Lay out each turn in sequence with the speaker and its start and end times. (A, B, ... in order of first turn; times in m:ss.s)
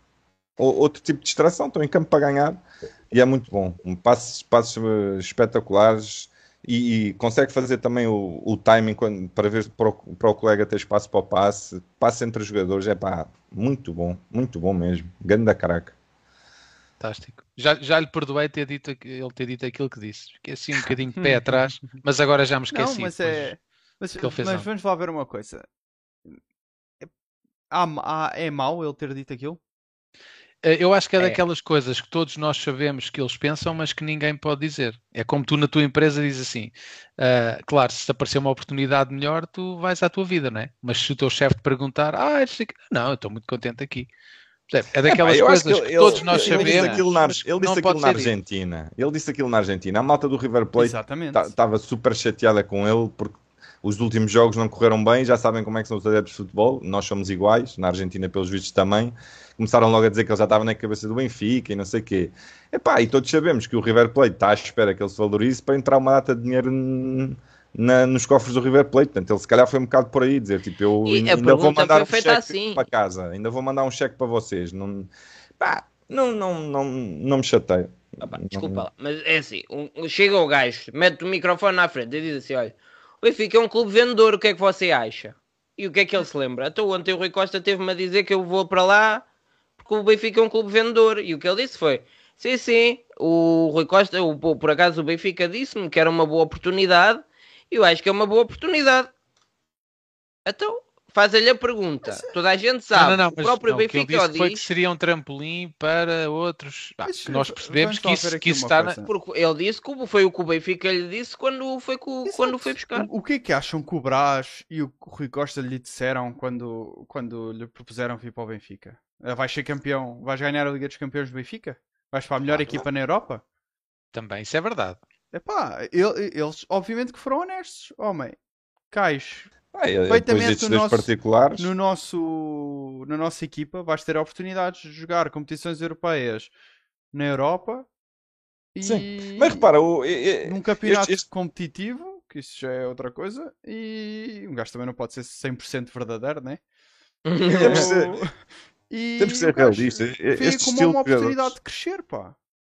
0:00.6-0:15.9 A
0:17.0-0:23.5 B
0:21.2-0:21.9 C
0:22.7-0:25.6 C
0:24.2-0:24.7 B
0:27.7-0:29.6 C
0:30.6-0:44.1 B
0:44.7-0:48.3 B
0:45.0-1:18.8 A
0:46.1-0:47.0 C
0:50.8-0:51.5 C
1:11.0-1:12.8 D
1:18.2-1:29.2 D
1:29.8-1:39.1 D
1:40.4-1:44.6 D
1:42.1-1:42.3 C
1:42.9-1:49.0 B
1:47.0-1:49.1 C
1:49.0-1:53.1 D
1:52.2-2:03.4 C
2:04.1-2:05.0 B
2:05.3-2:08.4 C
2:08.9-2:09.5 C
2:09.7-2:11.7 A
2:10.1-2:16.5 C
2:17.1-2:17.9 C
2:18.7-2:19.7 C
2:18.8-2:21.2 A
2:20.4-2:26.6 C
2:27.2-2:27.8 D
2:27.5-2:28.3 C
2:27.6-2:28.2 A
2:28.9-2:32.3 C
2:29.2-2:31.5 A